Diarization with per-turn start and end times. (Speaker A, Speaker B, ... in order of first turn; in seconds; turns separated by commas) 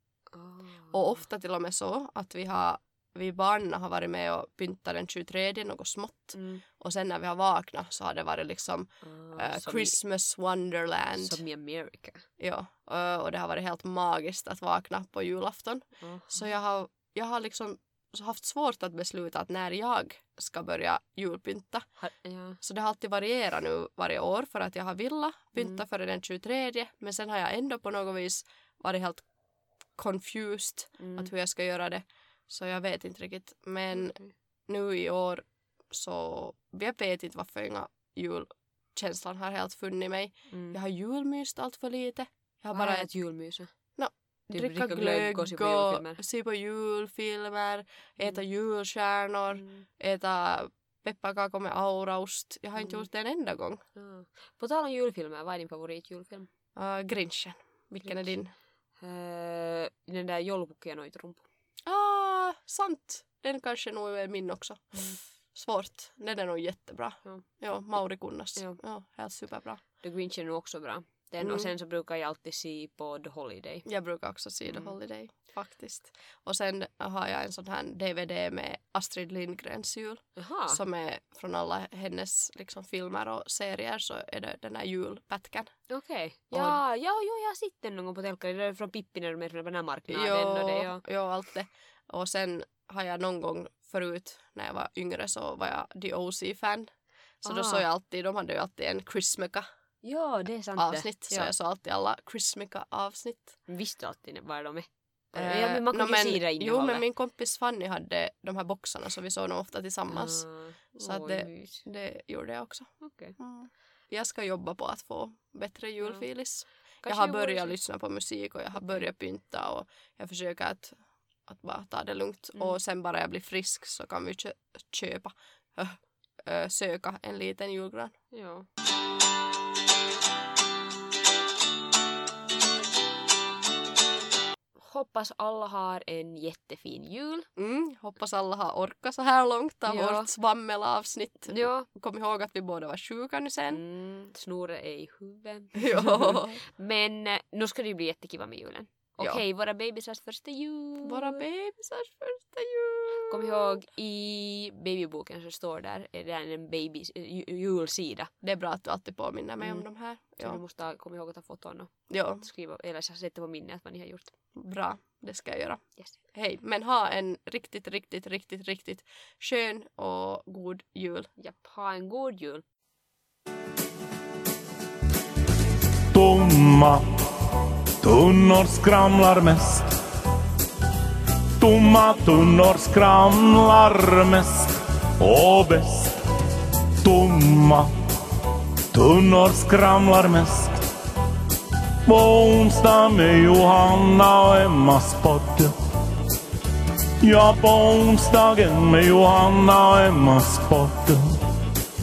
Speaker A: 0.3-1.0, Speaker B: 0.9-11.4, Speaker A: 6.3-6.6, Speaker A: 9.0-9.9, Speaker A: 11.2-12.2, Speaker B: 12.4-21.9, Speaker A: 16.0-16.5, Speaker A: 22.0-22.6, Speaker B: 22.6-29.2, Speaker B: 29.9-43.1, Speaker A: 31.0-31.3, Speaker A: 33.9-34.3, Speaker A: 40.5-40.8, Speaker A: 42.7-43.7, Speaker B: 44.0-53.8, Speaker A: 44.5-46.2, Speaker A: 49.5-49.9, Speaker A: 54.0-56.5, Speaker B: 56.8-58.5, Speaker A: 58.0-58.3, Speaker A: 59.0-61.5, Speaker B: 61.9-69.8, Speaker A: 70.0-73.9, Speaker B: 71.4-71.7, Speaker B: 73.9-85.7, Speaker A: 74.7-74.9, Speaker A: 80.4-80.8, Speaker A: 85.9-91.0, Speaker B: 86.5-86.8, Speaker B: 90.1-99.6, Speaker A: 97.4-97.8, Speaker A: 100.0-101.5, Speaker B: 100.8-103.6, Speaker A: 103.7-107.0, Speaker B: 105.3-110.5, Speaker A: 110.1-111.8, Speaker B: 111.0-128.1, Speaker A: 113.0-113.4, Speaker A: 116.0-116.2, Speaker A: 117.0-117.8, Speaker A: 118.8-119.0, Speaker A: 128.3-128.7, Speaker A: 134.8-137.5, Speaker B: 137.6-143.8, Speaker A: 139.9-140.3, Speaker A: 141.5-141.9, Speaker A: 143.7-151.4, Speaker B: 145.8-146.6, Speaker B: 151.0-153.8, Speaker A: 153.3-158.3, Speaker B: 158.4-160.6, Speaker A: 160.4-164.3, Speaker B: 162.1-162.4, Speaker B: 164.6-171.3, Speaker A: 171.4-172.6, Speaker C: 176.1-177.1, Speaker C: 178.0-179.9, Speaker C: 181.6-186.2, Speaker C: 187.0-187.9, Speaker C: 188.9-190.8, Speaker C: 192.1-195.7, Speaker C: 197.2-201.4